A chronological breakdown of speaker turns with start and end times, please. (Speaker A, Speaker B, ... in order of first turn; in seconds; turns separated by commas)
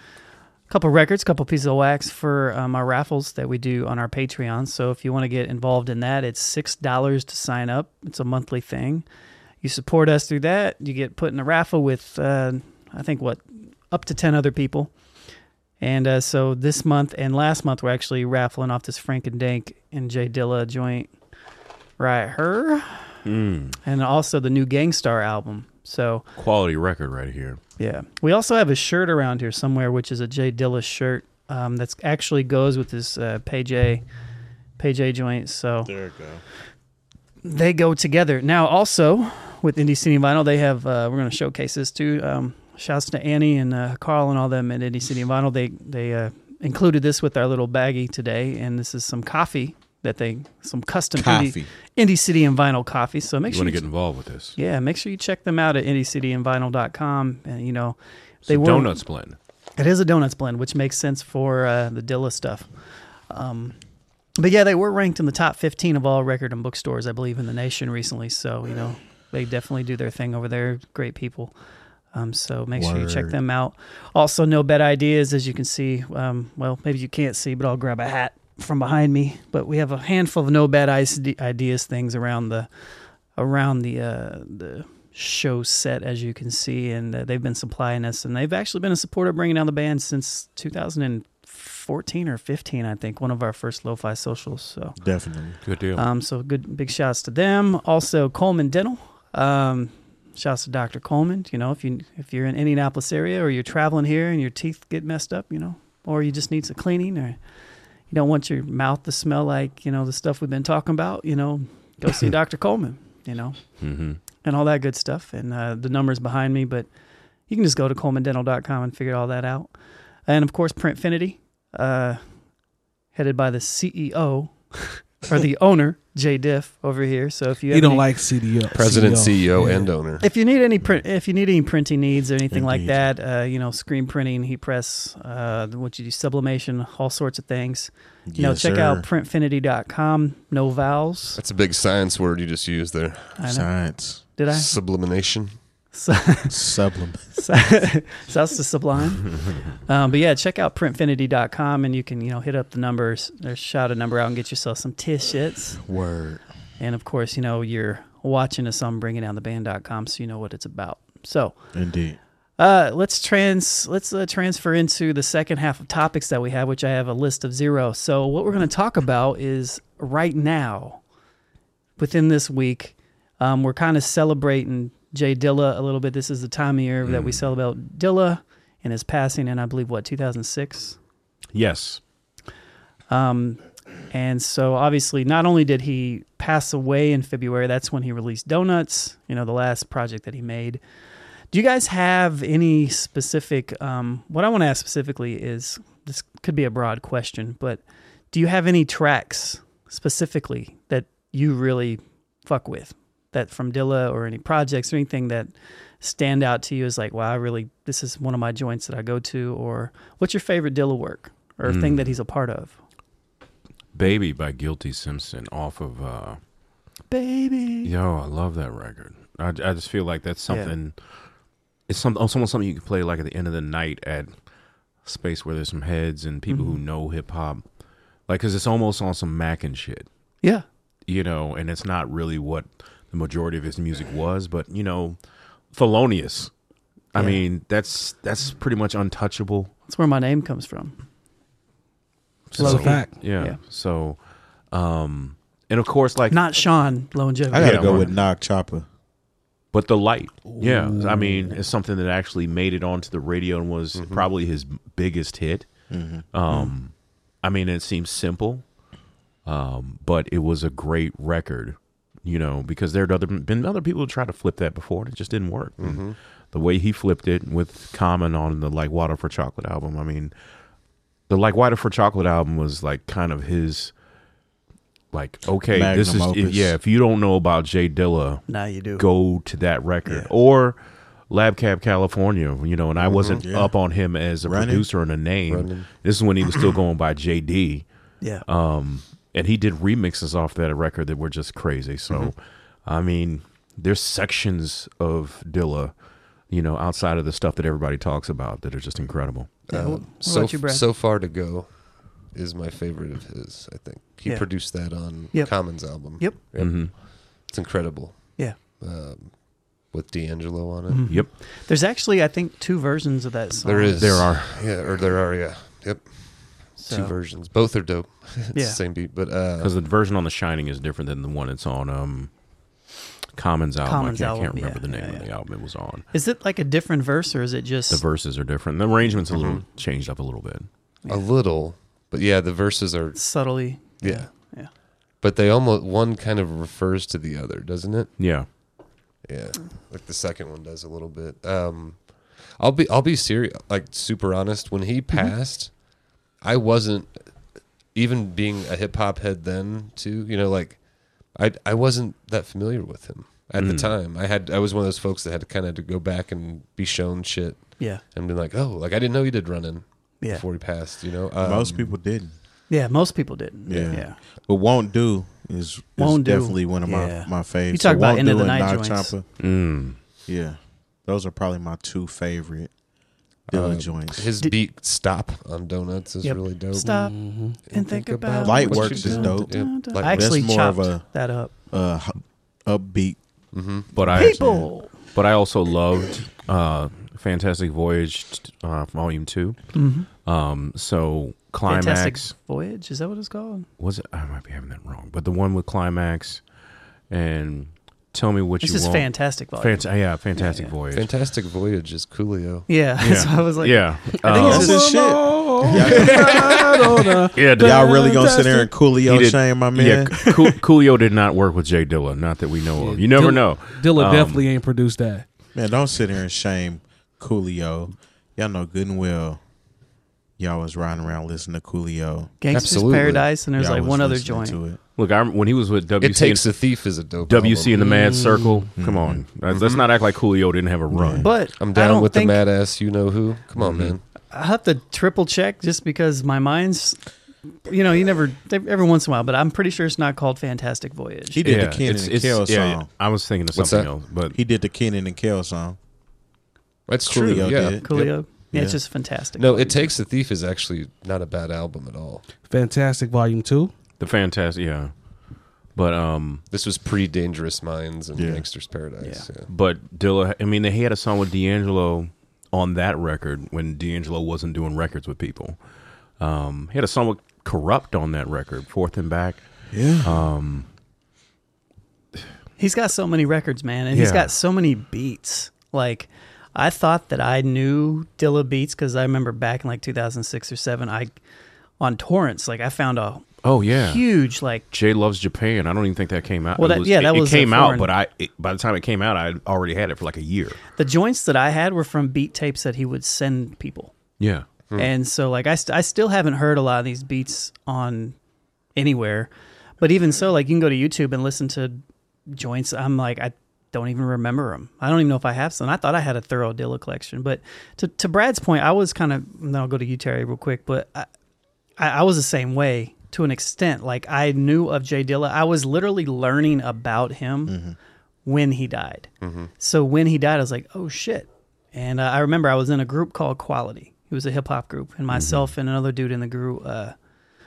Speaker A: 0.7-9.1, Speaker A: 9.6-14.9, Speaker A: 15.8-21.1, Speaker A: 22.0-23.2, Speaker B: 23.2-23.8, Speaker A: 23.8-26.3, Speaker B: 26.4-27.6, Speaker A: 27.8-34.0, Speaker A: 34.8-36.0, Speaker C: 35.9-36.4, Speaker A: 37.4-53.8, Speaker C: 51.2-51.7, Speaker B: 53.5-54.6, Speaker A: 54.6-59.0, Speaker B: 58.5-59.4, Speaker A: 59.8-62.7, Speaker A: 63.3-63.8, Speaker A: 64.4-71.5, Speaker A: 72.1-82.7, Speaker C: 72.7-73.4, Speaker A: 83.4-95.0, Speaker C: 95.0-95.6, Speaker B: 95.7-96.0, Speaker A: 95.9-107.4, Speaker A: 108.1-113.8, Speaker B: 113.8-114.2, Speaker A: 114.4-116.9, Speaker A: 117.5-119.7, Speaker A: 120.3-122.2, Speaker A: 123.1-128.1, Speaker D: 127.7-129.9, Speaker E: 128.7-130.2, Speaker A: 130.2-141.4, Speaker C: 132.5-133.1, Speaker C: 138.3-139.1, Speaker E: 141.4-143.4, Speaker A: 143.4-144.7, Speaker C: 143.5-144.2, Speaker E: 144.5-145.6, Speaker A: 145.9-146.7, Speaker C: 146.5-147.3, Speaker A: 147.3-155.8, Speaker C: 155.8-156.4, Speaker A: 156.8-161.6, Speaker C: 161.7-162.2, Speaker A: 162.6-171.0, Speaker A: 172.0-181.0, Speaker B: 177.1-177.4, Speaker B: 181.5-182.0, Speaker A: 183.1-190.8, Speaker A: 191.5-212.8, Speaker B: 211.7-212.1, Speaker B: 213.9-216.4, Speaker A: 217.1-217.9, Speaker B: 217.8-221.0, Speaker A: 220.5-220.7, Speaker B: 221.9-224.3, Speaker B: 225.0-227.6, Speaker A: 226.5-226.8, Speaker B: 228.3-230.1, Speaker B: 231.1-235.2, Speaker B: 235.7-236.5, Speaker B: 237.1-239.7, Speaker A: 237.2-237.4, Speaker A: 239.9-241.0, Speaker B: 242.5-244.2, Speaker A: 242.6-243.6, Speaker D: 242.6-243.2, Speaker B: 244.7-246.4, Speaker A: 246.3-248.1, Speaker C: 247.5-248.9, Speaker B: 247.6-248.1, Speaker E: 247.7-248.0, Speaker B: 249.7-255.7, Speaker D: 250.5-251.6, Speaker E: 253.9-254.3, Speaker C: 255.9-256.2, Speaker B: 256.3-258.7, Speaker B: 259.4-270.3, Speaker E: 265.8-266.2, Speaker B: 271.3-273.9, Speaker B: 275.1-280.8, Speaker C: 275.7-276.8, Speaker A: 278.5-279.0, Speaker B: 281.3-287.9, Speaker E: 283.0-283.4, Speaker C: 283.3-283.7, Speaker C: 284.4-284.9, Speaker E: 285.5-285.9, Speaker B: 288.4-295.9, Speaker B: 296.5-299.6, Speaker E: 299.7-311.0, Speaker A: 299.7-300.9, Speaker A: 304.2-306.4, Speaker B: 306.6-306.9, Speaker A: 310.9-314.0, Speaker E: 313.6-319.7, Speaker B: 314.0-314.6, Speaker A: 316.8-317.1, Speaker A: 318.5-318.8, Speaker B: 319.6-322.3, Speaker B: 323.4-326.1, Speaker A: 323.8-325.3, Speaker A: 326.1-328.0, Speaker B: 327.9-330.7, Speaker E: 329.3-329.6, Speaker E: 331.1-333.4, Speaker A: 333.1-334.7, Speaker E: 334.0-338.6, Speaker B: 338.2-338.5, Speaker E: 339.2-345.9, Speaker E: 346.4-361.9, Speaker B: 353.6-353.9, Speaker C: 361.4-362.3, Speaker A: 362.7-364.2, Speaker C: 363.7-369.4, Speaker A: 366.0-369.1, Speaker B: 369.4-370.0, Speaker C: 370.3-372.7, Speaker C: 373.5-374.3, Speaker E: 373.5-376.9, Speaker A: 376.2-381.5, Speaker D: 376.8-377.6, Speaker E: 377.6-380.4, Speaker C: 378.4-381.1, Speaker C: 381.7-383.2, Speaker E: 383.5-383.9, Speaker C: 383.9-384.7, Speaker B: 383.9-392.3, Speaker A: 384.1-384.9, Speaker A: 389.7-390.1, Speaker A: 391.7-393.7, Speaker B: 393.8-396.4, Speaker B: 397.1-401.1, Speaker A: 398.6-400.7, Speaker E: 400.9-402.7, Speaker A: 402.7-404.9, Speaker B: 403.0-404.8, Speaker D: 404.3-408.7, Speaker C: 404.4-406.6, Speaker B: 406.0-406.5, Speaker B: 407.3-407.9, Speaker C: 407.6-410.2, Speaker B: 409.0-414.4, Speaker A: 410.2-410.6, Speaker E: 412.8-413.1, Speaker D: 413.1-415.2, Speaker C: 415.6-419.4, Speaker C: 420.4-422.4, Speaker A: 422.4-424.6, Speaker E: 422.5-423.3, Speaker C: 423.5-424.8, Speaker B: 425.0-431.3, Speaker E: 426.0-427.8, Speaker D: 427.8-428.7, Speaker C: 428.8-429.2, Speaker E: 429.5-429.9, Speaker C: 430.9-431.3, Speaker A: 431.2-432.4, Speaker E: 431.6-434.0, Speaker B: 433.6-434.0, Speaker A: 434.3-437.1, Speaker A: 437.6-441.5, Speaker C: 441.3-442.9, Speaker B: 441.4-444.4, Speaker E: 443.5-443.9, Speaker C: 444.3-445.8, Speaker E: 446.9-448.2, Speaker C: 447.0-448.8, Speaker A: 447.8-449.9, Speaker E: 449.4-452.3, Speaker D: 452.4-453.7, Speaker B: 454.0-454.9, Speaker B: 455.7-456.4, Speaker E: 456.5-459.5, Speaker C: 458.1-458.5, Speaker A: 459.0-459.3, Speaker B: 459.5-465.6, Speaker B: 466.2-470.7, Speaker C: 469.7-470.2, Speaker A: 472.6-481.2, Speaker B: 473.9-474.3, Speaker A: 481.8-484.6, Speaker B: 483.4-484.1, Speaker B: 484.7-490.6, Speaker A: 486.6-487.9, Speaker A: 490.8-493.9, Speaker B: 494.2-494.5, Speaker A: 494.8-498.2, Speaker A: 498.8-511.1, Speaker A: 511.8-517.6, Speaker C: 517.5-517.8, Speaker A: 518.2-527.0, Speaker E: 519.2-519.5, Speaker B: 525.1-525.5